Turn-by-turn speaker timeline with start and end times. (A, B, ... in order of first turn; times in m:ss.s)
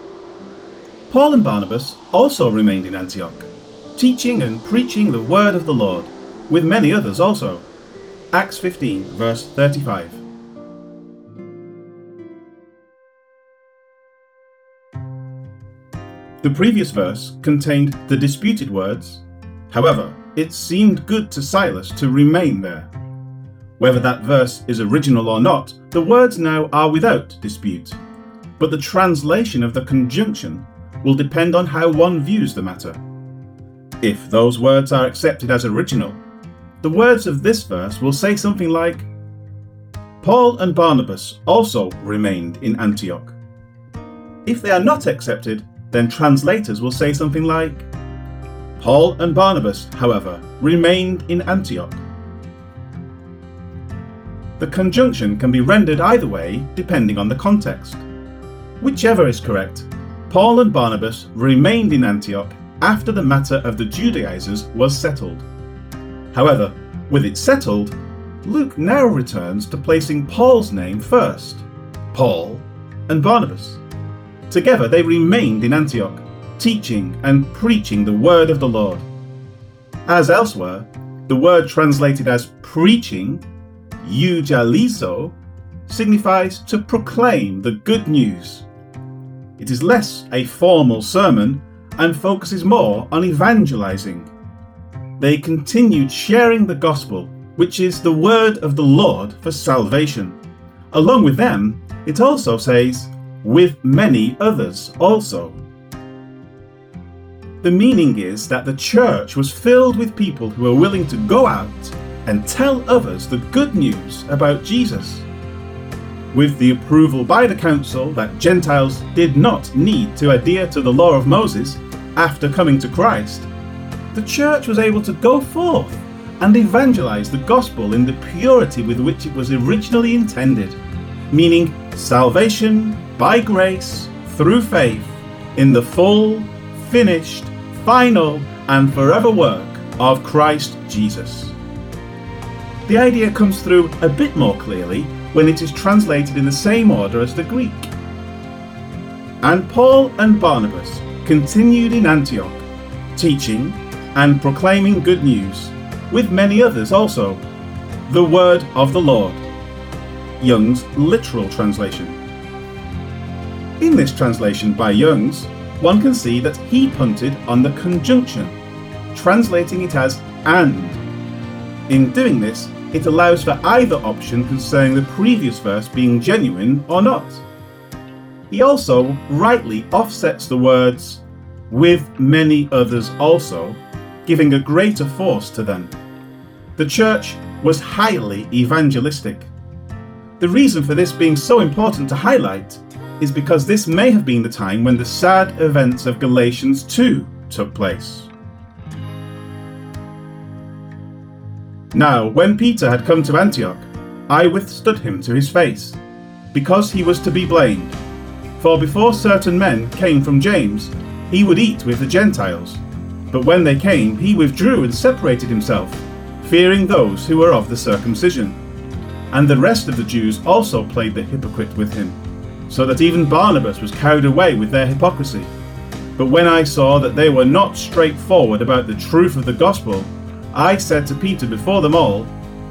0:01.1-0:07.6 A
0:08.3-0:10.2 A
0:16.4-0:22.9 A
0:23.8-0:28.0 A
0:28.6-0:33.0 A
0:34.0-0:36.2 A
0:36.8-0:39.1 A
0:40.2-0:43.4 A
0:44.4-0:47.9 A
0:48.8-0:52.0 A
0:54.6-0:58.0 A
0:58.8-1:05.4 A
1:06.3-1:13.8 A
1:14.5-1:19.0 A
1:20.0-1:23.4 A
1:24.0-1:25.4 A
1:25.9-1:28.6 A
1:29.6-1:34.3 A
1:35.2-1:40.4 A
1:40.9-1:45.6 A
1:47.6-1:55.3 A
1:56.3-2:03.5 A
2:04.1-2:10.8 A
2:11.3-2:21.6 A
2:22.9-2:27.9 A
2:29.4-2:37.4 A
2:38.1-2:39.4 A
2:40.4-2:42.2 A
2:43.8-2:48.6 A
2:49.1-2:51.0 A
2:51.9-2:57.4 A
2:58.5-3:05.9 A
3:06.8-3:09.5 A
3:10.4-3:18.3 A
3:21.9-3:26.0 A
3:26.5-3:28.0 A
3:28.6-3:38.6 A
3:39.3-3:45.5 A
3:46.2-3:52.3 A